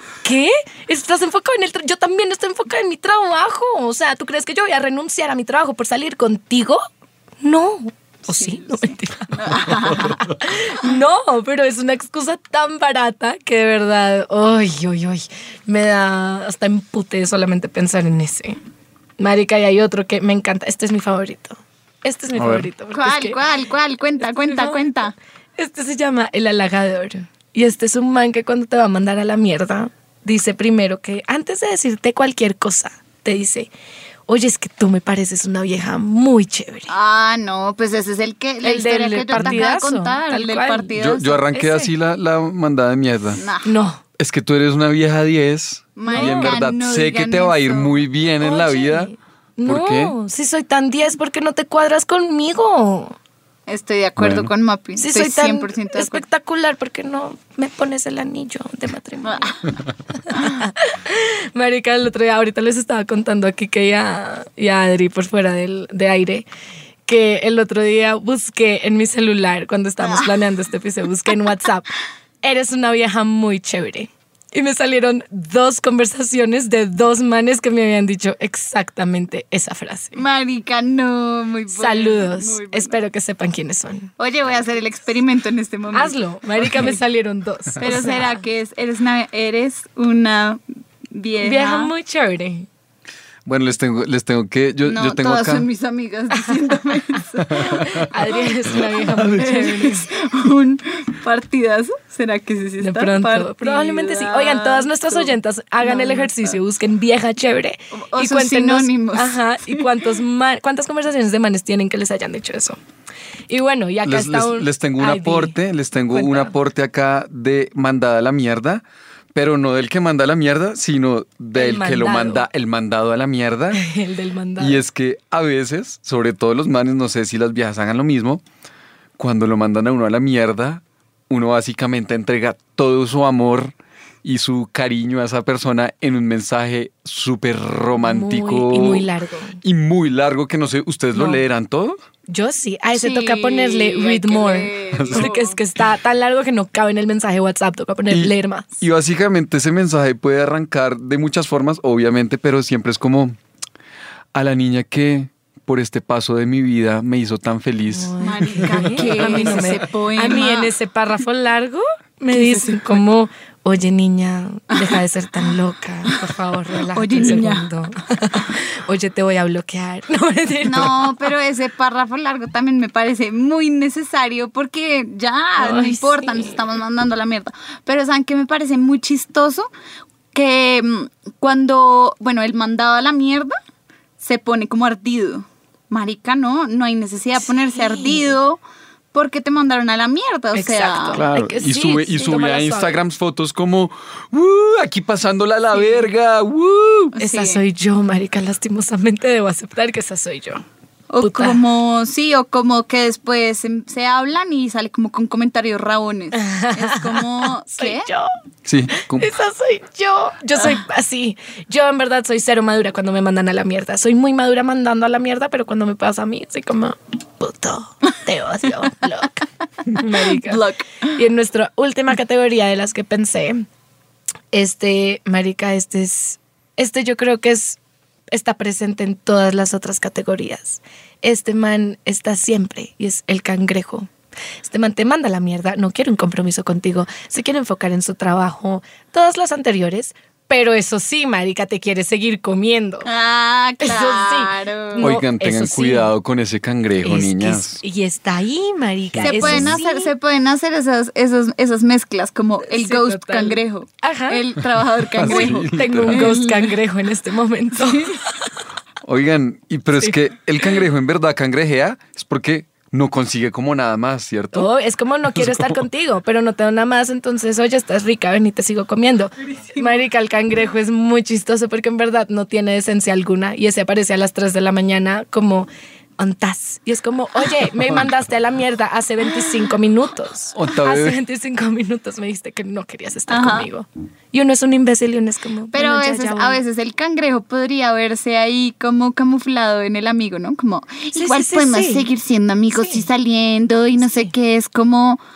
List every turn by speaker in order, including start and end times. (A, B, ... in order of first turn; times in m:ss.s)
0:00.2-0:06.8 A
0:07.4-0:18.6 A
0:08.3-0:08.6 B
0:09.3-0:10.3 B
0:19.2-0:23.4 A
0:22.3-0:22.7 C
0:22.9-0:25.1 B
0:24.2-0:33.7 A
0:34.3-0:36.9 A
0:36.9-0:41.4 B
0:38.6-0:40.9 A
0:39.3-0:39.6 C
0:41.0-0:43.4 C
0:41.5-0:41.9 A
0:43.4-0:43.8 B
0:43.6-0:44.0 A
0:44.2-0:49.1 C
0:46.0-0:48.0 B
0:46.1-0:46.6 A
0:48.4-0:53.2 A
0:49.6-0:50.1 C
0:53.7-0:56.2 B
0:54.2-0:54.5 C
0:55.0-0:59.6 A
0:59.2-0:59.6 B
1:00.2-1:06.4 A
1:07.0-1:20.2 A
1:10.0-1:10.3 B
1:20.2-1:23.0 B
1:21.7-1:24.1 A
1:24.2-1:26.9 B
1:25.9-1:28.4 A
1:27.8-1:31.9 B
1:31.4-1:32.7 A
1:33.4-1:35.7 C
1:34.8-1:46.6 B
1:37.5-1:38.0 C
1:37.6-1:40.1 A
1:39.0-1:39.6 C
1:42.8-1:52.8 A
1:47.9-1:49.9 B
1:53.5-1:55.5 A
1:54.0-2:03.8 C
1:56.1-1:56.5 A
2:01.5-2:02.5 A
2:03.7-2:04.8 A
2:04.6-2:08.4 C
2:09.2-2:19.1 C
2:18.0-2:19.6 A
2:19.6-2:22.0 C
2:21.1-2:21.4 A
2:22.3-2:28.7 A
2:22.9-2:25.6 B
2:24.9-2:25.3 C
2:28.1-2:33.4 C
2:34.3-2:39.8 C
2:37.9-2:51.1 A
2:38.2-2:40.7 B
2:42.3-2:43.0 B
2:44.7-2:45.0 B
2:46.9-2:47.7 B
2:50.6-2:59.7 B
2:55.6-2:56.7 A
3:00.3-3:03.5 B
3:04.2-3:08.6 B
3:07.5-3:08.3 A
3:09.1-3:11.2 B
3:10.5-3:13.0 A
3:11.1-3:17.1 C
3:17.1-3:17.6 B
3:17.2-3:20.6 A
3:21.1-3:28.1 B
3:21.2-3:21.6 A
3:26.3-3:28.3 A
3:28.6-3:29.3 C
3:28.9-3:43.6 A
3:40.2-3:41.1 B
3:44.5-3:47.8 A
3:48.3-3:54.1 A
3:54.6-4:03.1 A
4:03.0-4:05.1 B
4:03.8-4:06.1 A
4:05.0-4:07.8 C
4:07.0-4:10.1 A
4:09.1-4:09.8 C
4:09.2-4:16.8 B
4:12.6-4:14.4 A
4:15.1-4:16.4 C
4:15.2-4:18.3 A
4:17.8-4:18.1 B
4:19.0-4:24.7 C
4:24.5-4:46.6 A
4:25.3-4:25.8 C
4:40.5-4:41.2 C
4:43.3-4:43.7 B
4:45.7-4:55.2 B
4:51.1-4:52.1 A
4:52.7-4:53.1 A
4:54.0-4:54.3 A